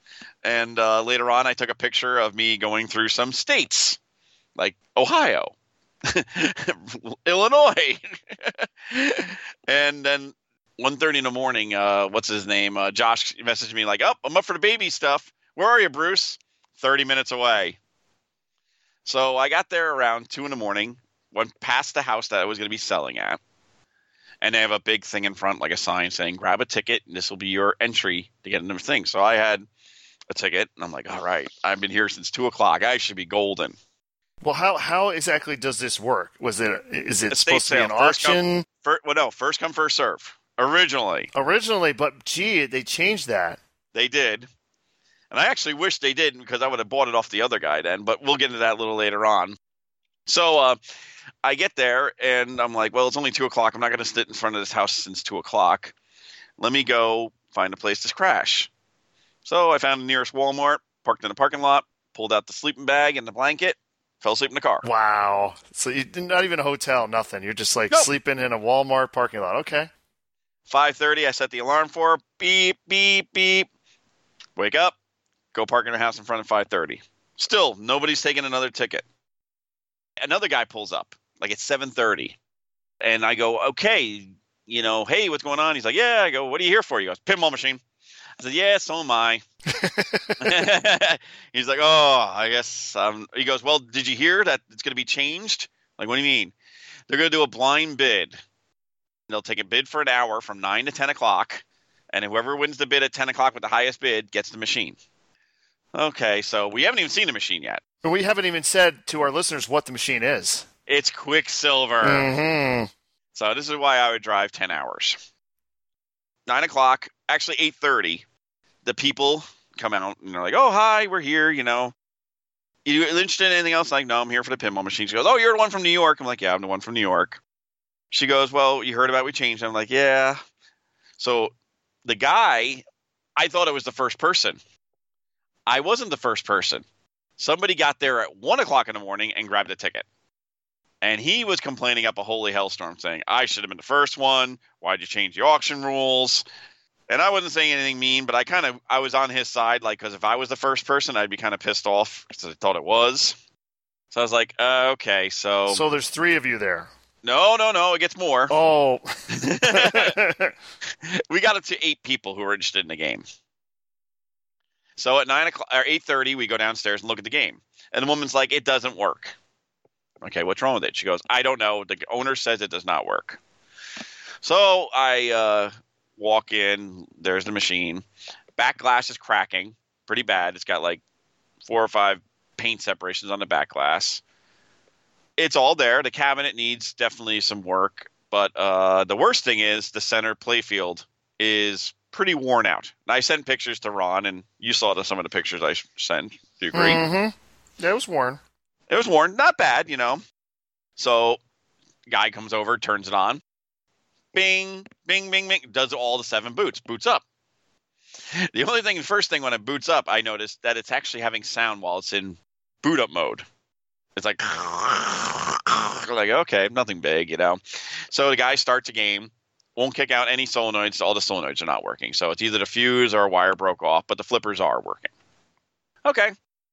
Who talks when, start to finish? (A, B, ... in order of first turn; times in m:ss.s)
0:00.4-0:04.0 A
0:04.6-0:05.5 A
0:06.0-0:17.8 A
0:19.0-0:23.4 A
0:24.4-0:29.7 A
0:30.3-0:33.8 A
0:34.4-0:38.6 B
0:37.3-0:41.3 A
0:41.3-0:43.6 B
0:43.9-0:44.5 A
0:45.3-0:49.6 A
0:50.3-0:50.8 A
0:51.4-0:55.9 A
0:56.6-0:58.7 A
0:59.4-1:04.8 A
1:04.8-1:09.9 B
1:10.7-1:13.7 A
1:14.6-1:15.0 A
1:15.5-1:19.0 A
1:20.2-1:22.4 A
1:23.0-1:27.8 A
1:28.4-1:29.4 A
1:29.7-1:30.5 B
1:30.4-1:36.5 A
1:37.1-1:38.4 A
1:39.3-1:45.0 A
1:45.9-1:47.8 A
1:48.0-1:50.7 B
1:50.9-1:52.3 A
1:52.0-1:52.9 B
1:53.3-1:55.2 A
1:56.5-1:58.2 A
1:58.8-2:01.9 A
2:02.8-2:07.4 A
2:08.1-2:10.4 A
2:11.2-2:11.5 A
2:12.0-2:12.8 A
2:13.4-2:14.6 A
2:15.7-2:16.8 A
2:17.4-2:20.0 A
2:21.0-2:26.4 A
2:27.1-2:33.4 A
2:34.1-2:35.8 A
2:35.7-2:36.9 B
2:37.2-2:38.5 A
2:38.5-2:40.5 B
2:39.3-2:40.2 A
2:41.0-2:43.2 A
2:45.0-2:49.4 A
2:50.2-2:53.4 A
2:54.4-2:58.0 A
2:58.6-3:01.0 A
3:01.6-3:04.2 A
3:05.4-3:17.0 A
3:16.7-3:18.4 B
3:18.9-3:20.2 A
3:21.0-3:21.4 A
3:22.1-3:23.4 A
3:24.3-3:27.2 A
3:28.3-3:33.4 A
3:34.2-3:45.1 A
3:46.0-3:46.4 A